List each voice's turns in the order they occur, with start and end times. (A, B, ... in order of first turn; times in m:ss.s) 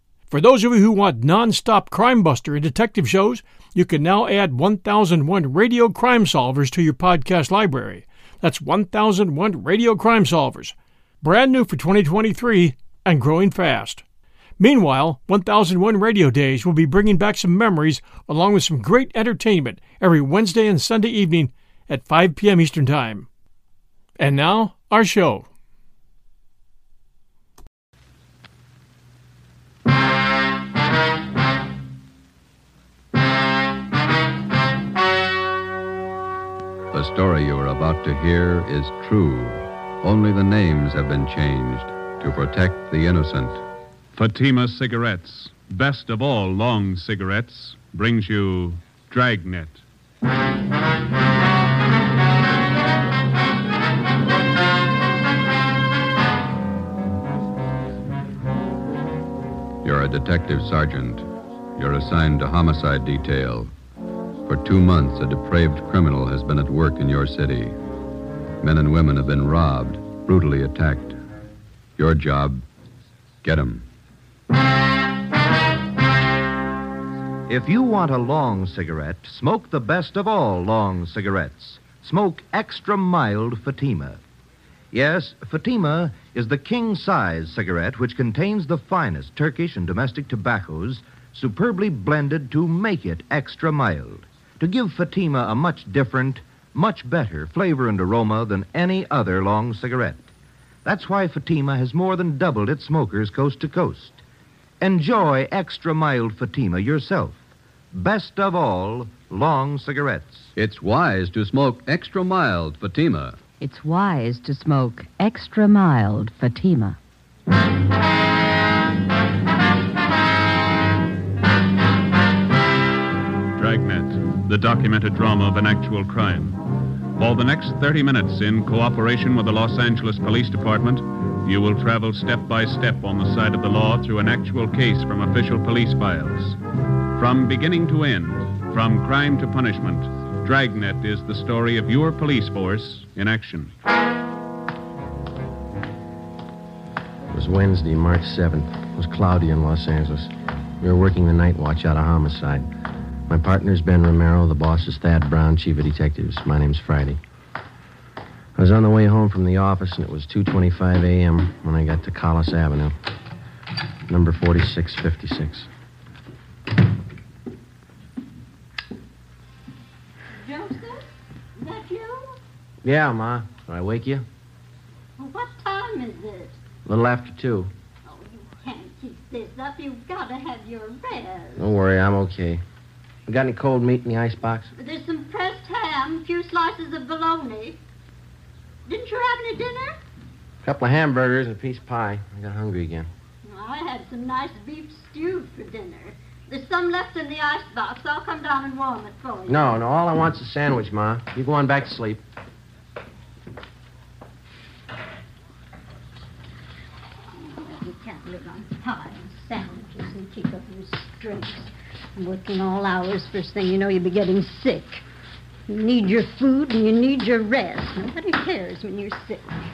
0:00.3-0:14.0 A
0:14.6-0:23.3 A
0:24.2-0:25.5 A
0:36.9-0:43.6 B
0:44.1-0:49.8 C
0:59.8-1:03.7 B
1:04.5-1:07.8 B
1:08.6-1:11.2 B
1:12.0-1:12.6 B
1:13.4-1:13.8 B
1:17.5-1:24.2 D
1:24.9-1:40.3 D
1:40.8-1:44.2 D
1:44.8-1:47.4 D
1:47.9-1:50.5 D
1:50.6-1:53.4 B
1:53.6-1:57.0 E
2:03.6-2:06.6 C
2:07.2-2:16.6 C
2:17.2-2:23.7 C
2:27.3-2:32.7 F
2:33.3-2:37.2 F
2:38.6-2:43.0 F
2:44.1-2:45.7 F
2:50.4-2:52.4 G
2:52.8-2:54.3 F
2:55.2-2:56.6 G
2:56.8-2:57.7 F
2:58.0-3:01.7 G
3:01.6-3:02.6 F
3:03.3-3:04.7 F
3:04.8-3:07.8 G
3:08.9-3:10.0 G
3:10.6-3:13.1 F
3:13.4-3:19.8 G
3:19.5-3:22.2 F
3:27.4-3:35.0 G
3:35.7-3:39.5 G